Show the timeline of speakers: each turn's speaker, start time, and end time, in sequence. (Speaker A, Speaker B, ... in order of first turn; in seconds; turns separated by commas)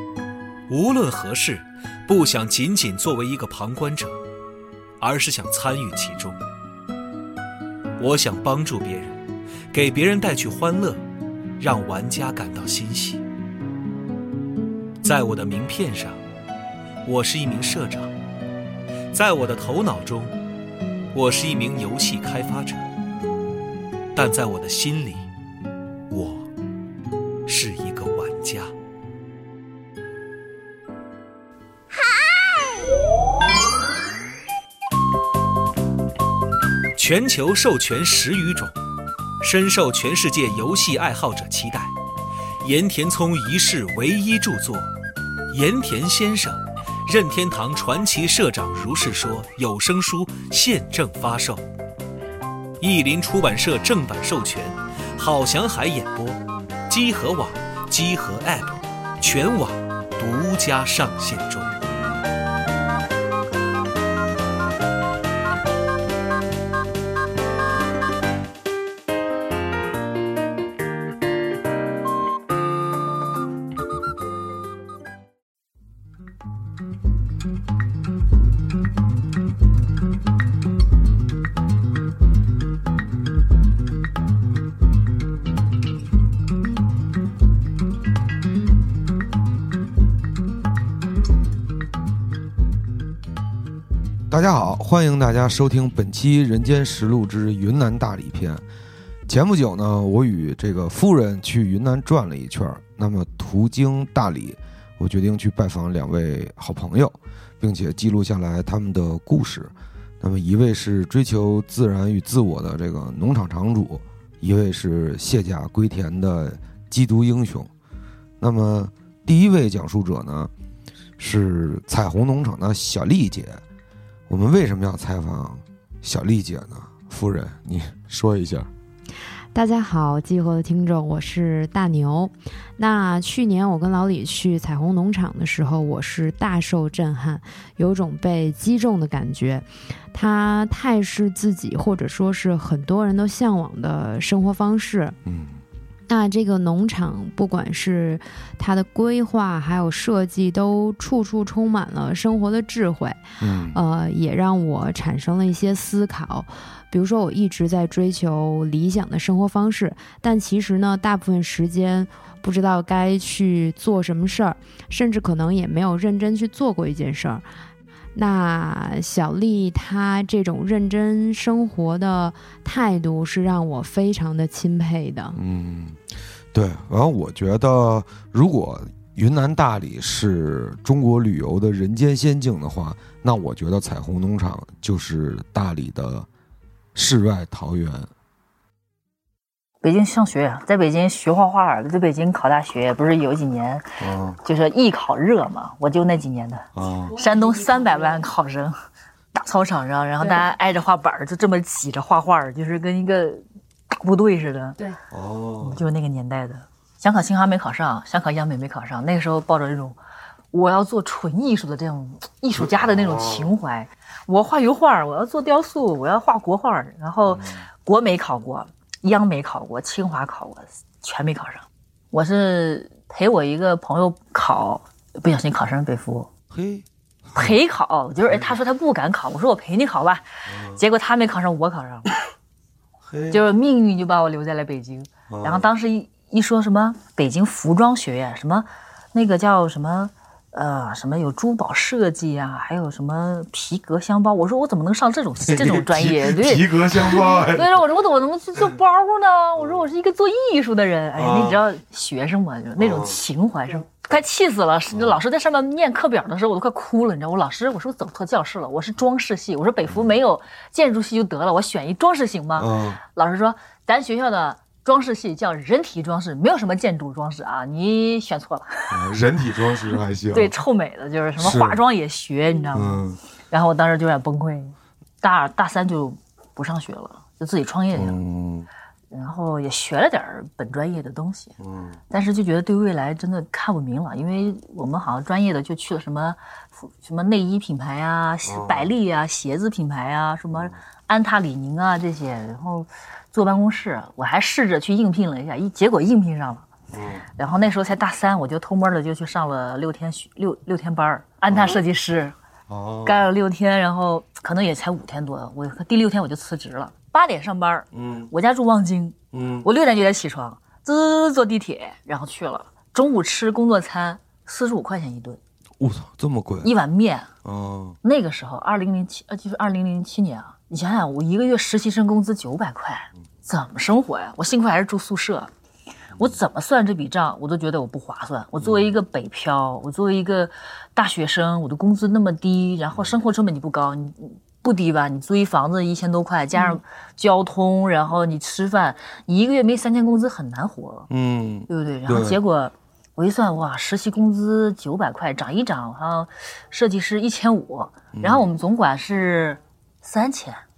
Speaker A: 0.7-4.2, Speaker A: 5.0-6.4, Speaker A: 8.0-11.0, Speaker A: 11.6-13.2, Speaker A: 15.0-16.2, Speaker A: 17.0-18.1, Speaker A: 19.1-20.4, Speaker A: 21.1-22.9, Speaker A: 24.1-25.3, Speaker A: 26.1-26.5, Speaker A: 27.4-28.7, Speaker A: 36.9-38.8, Speaker A: 39.4-41.9, Speaker A: 42.6-44.9, Speaker A: 45.5-51.6, Speaker A: 52.8-61.9, Speaker B: 94.3-98.6, Speaker B: 99.3-117.7, Speaker B: 118.4-120.5, Speaker B: 121.2-123.6, Speaker B: 124.3-128.7, Speaker C: 129.5-145.2, Speaker B: 145.2-145.6, Speaker C: 146.1-167.4, Speaker B: 153.4-153.8, Speaker C: 168.1-175.4, Speaker B: 175.3-186.3, Speaker B: 186.9-188.1, Speaker D: 189.8-193.9, Speaker B: 194.0-194.4, Speaker D: 194.4-198.8, Speaker B: 196.7-197.1, Speaker C: 197.1-198.2, Speaker D: 199.3-204.8, Speaker B: 205.1-205.8, Speaker D: 205.6-210.0, Speaker D: 210.5-226.3, Speaker B: 212.5-213.5, Speaker B: 217.3-217.7, Speaker B: 226.5-227.6, Speaker D: 227.3-232.1, Speaker B: 228.2-228.5, Speaker B: 230.4-230.8, Speaker B: 233.1-233.4, Speaker D: 233.3-269.1, Speaker B: 235.3-235.7, Speaker B: 245.4-247.8, Speaker B: 251.1-251.6, Speaker B: 252.8-253.2, Speaker B: 262.6-263.0, Speaker B: 268.9-270.6, Speaker D: 270.3-278.1, Speaker B: 271.4-271.8, Speaker B: 272.7-273.2, Speaker B: 277.9-278.7, Speaker D: 279.1-281.6, Speaker B: 281.6-282.0, Speaker D: 282.1-296.7, Speaker B: 288.4-288.9, Speaker B: 290.5-290.8, Speaker B: 296.9-297.3, Speaker D: 297.4-302.4, Speaker B: 301.5-301.8, Speaker B: 302.7-303.3, Speaker D: 303.0-315.4, Speaker B: 307.9-308.3, Speaker B: 309.3-309.7, Speaker B: 315.8-316.7, Speaker D: 316.6-317.3, Speaker B: 317.4-318.0, Speaker D: 318.0-325.5, Speaker D: 326.1-341.1, Speaker B: 328.6-328.9, Speaker B: 341.1-342.4, Speaker D: 341.7-350.6, Speaker B: 348.1-348.4